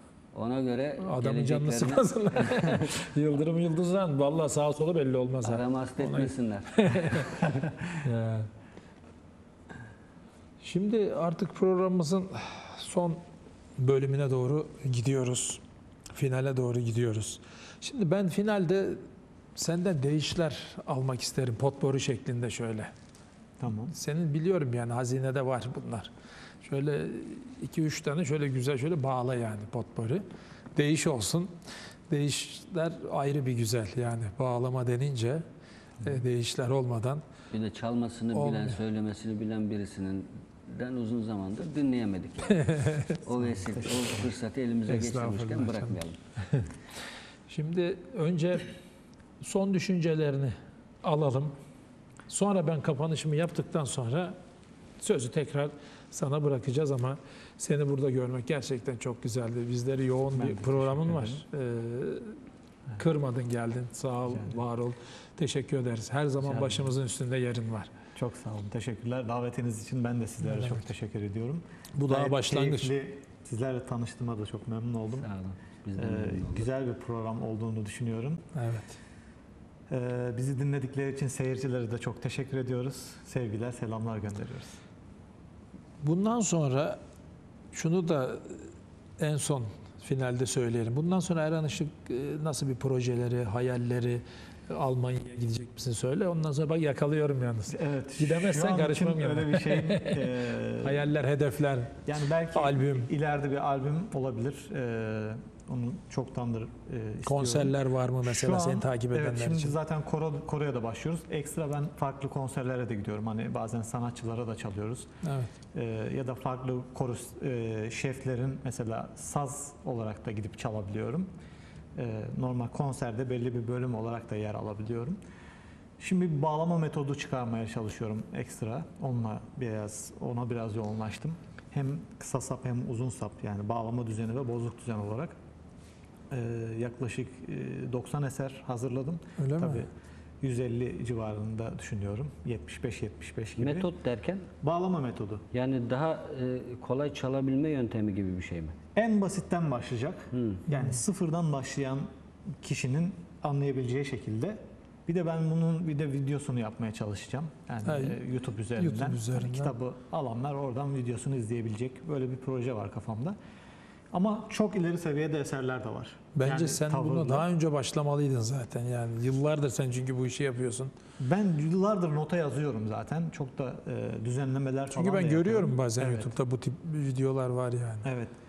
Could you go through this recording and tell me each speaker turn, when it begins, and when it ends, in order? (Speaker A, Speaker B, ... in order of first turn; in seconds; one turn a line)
Speaker A: 0.3-2.9
Speaker B: 1.0-8.5
Speaker A: 5.4-6.8
Speaker B: 10.6-13.2
Speaker B: 13.8-15.6
Speaker B: 16.1-19.0
Speaker B: 19.6-22.9
Speaker C: 23.6-23.9
Speaker B: 23.9-26.1
Speaker B: 26.6-30.2
Speaker B: 30.8-31.5
Speaker B: 32.1-35.5
Speaker B: 36.0-37.2
Speaker A: 37.5-42.6
Speaker B: 38.3-38.8
Speaker B: 42.5-43.2
Speaker A: 43.2-46.2
Speaker C: 43.7-44.1
Speaker B: 44.9-46.7
Speaker B: 47.5-48.7
Speaker B: 49.4-51.6
Speaker B: 52.3-54.4
Speaker B: 55.0-62.4
Speaker C: 60.4-61.4
Speaker B: 63.0-67.9
Speaker C: 64.3-64.6
Speaker C: 66.5-66.8
Speaker C: 68.2-75.3
Speaker B: 70.4-70.8
Speaker B: 72.0-72.9
Speaker A: 75.2-76.7
Speaker C: 76.0-78.4
Speaker B: 78.5-78.9
Speaker C: 79.9-84.8
Speaker B: 86.0-87.0
Speaker B: 87.7-103.1
Speaker C: 97.7-101.1
Speaker C: 102.1-115.1
Speaker B: 107.2-109.8
Speaker B: 115.2-115.5
Speaker C: 115.7-121.3
Speaker C: 122.0-125.2
Speaker C: 126.0-135.3
Speaker C: 136.3-139.9
Speaker B: 139.4-139.9
Speaker C: 140.4-143.9
Speaker A: 143.6-144.5
Speaker C: 144.6-145.4
Speaker A: 145.5-148.8
Speaker C: 149.0-152.1
Speaker A: 150.3-150.6
Speaker B: 150.7-151.0
Speaker C: 152.6-163.4
Speaker B: 157.8-158.2
Speaker B: 158.8-159.7
Speaker C: 164.1-167.5
Speaker B: 166.3-170.9
Speaker C: 171.2-176.3
Speaker B: 174.9-178.1
Speaker C: 178.1-178.3